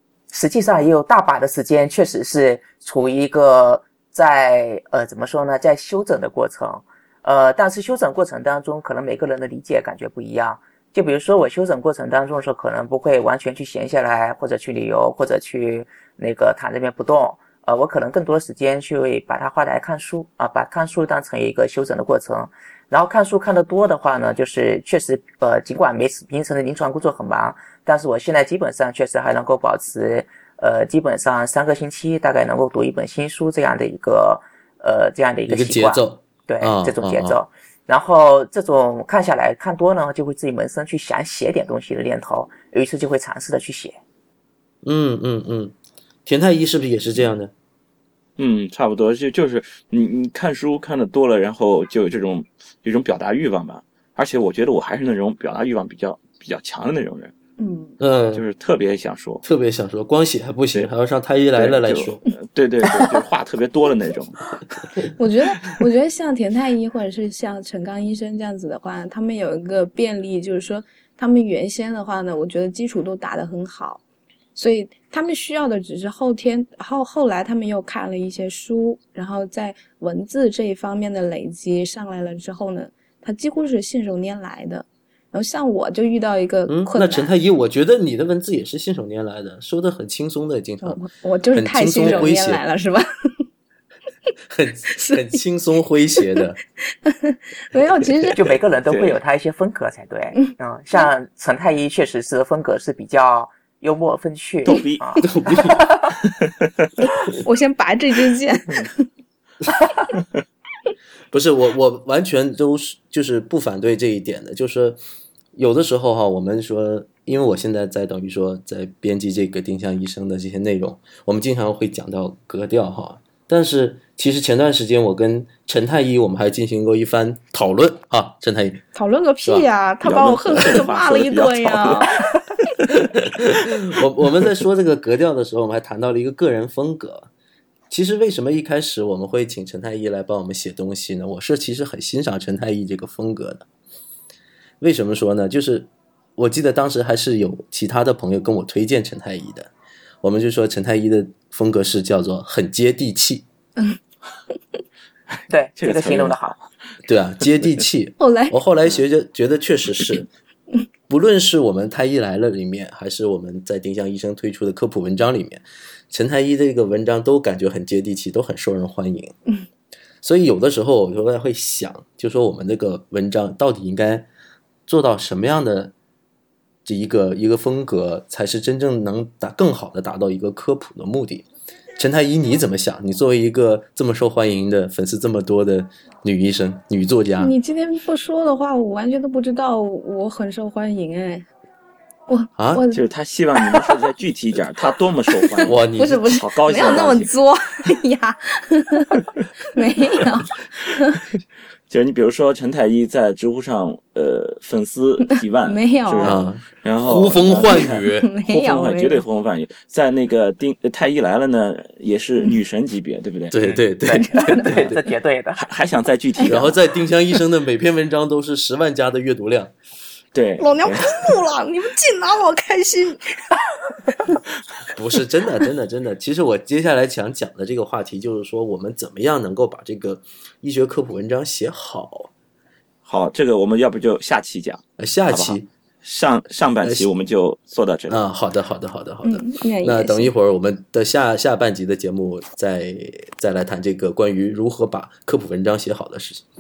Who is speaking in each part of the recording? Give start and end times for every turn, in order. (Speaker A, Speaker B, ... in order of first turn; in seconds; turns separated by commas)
Speaker A: 0.3-44.0, Speaker B: 35.5-37.4, Speaker B: 44.8-45.7, Speaker B: 46.3-47.5, Speaker C: 48.4-57.3, Speaker D: 57.6-58.0, Speaker B: 58.0-58.4, Speaker C: 58.3-59.4, Speaker B: 59.4-62.2, Speaker C: 61.6-64.8, Speaker D: 62.9-63.1, Speaker D: 65.2-74.0, Speaker D: 74.5-87.3, Speaker B: 86.7-91.0, Speaker D: 90.8-93.5, Speaker B: 91.5-92.6, Speaker B: 94.5-96.6, Speaker D: 96.4-98.4, Speaker A: 98.3-105.3, Speaker C: 98.9-99.2, Speaker C: 104.7-105.3, Speaker B: 105.2-105.9, Speaker D: 107.4-109.1, Speaker B: 111.3-115.0, Speaker B: 115.5-128.8, Speaker D: 128.9-132.4, Speaker C: 130.0-133.6, Speaker B: 133.1-137.3, Speaker B: 137.9-143.7, Speaker B: 144.8-149.7, Speaker B: 150.2-153.4, Speaker C: 155.4-156.4, Speaker A: 155.5-156.6, Speaker B: 157.1-160.3, Speaker D: 158.2-158.6, Speaker B: 161.1-169.3, Speaker B: 170.2-174.3, Speaker B: 174.9-175.9, Speaker B: 176.8-181.5, Speaker B: 182.0-187.6, Speaker D: 187.4-191.5, Speaker D: 192.3-193.0, Speaker B: 192.6-192.8, Speaker C: 192.9-195.8, Speaker D: 193.6-193.9, Speaker D: 195.4-201.2, Speaker B: 195.7-196.4, Speaker C: 196.3-197.3, Speaker C: 201.9-213.8, Speaker D: 205.7-206.4, Speaker B: 206.2-208.3, Speaker D: 207.7-209.2, Speaker B: 213.5-215.0, Speaker A: 214.1-215.6, Speaker D: 214.3-214.7, Speaker C: 215.6-216.8, Speaker B: 216.5-219.7, Speaker C: 220.3-221.4, Speaker D: 220.6-223.2, Speaker B: 224.9-232.3, Speaker C: 233.0-238.2, Speaker B: 235.0-235.7, Speaker B: 236.8-237.1, Speaker B: 238.1-246.4, Speaker D: 239.2-240.3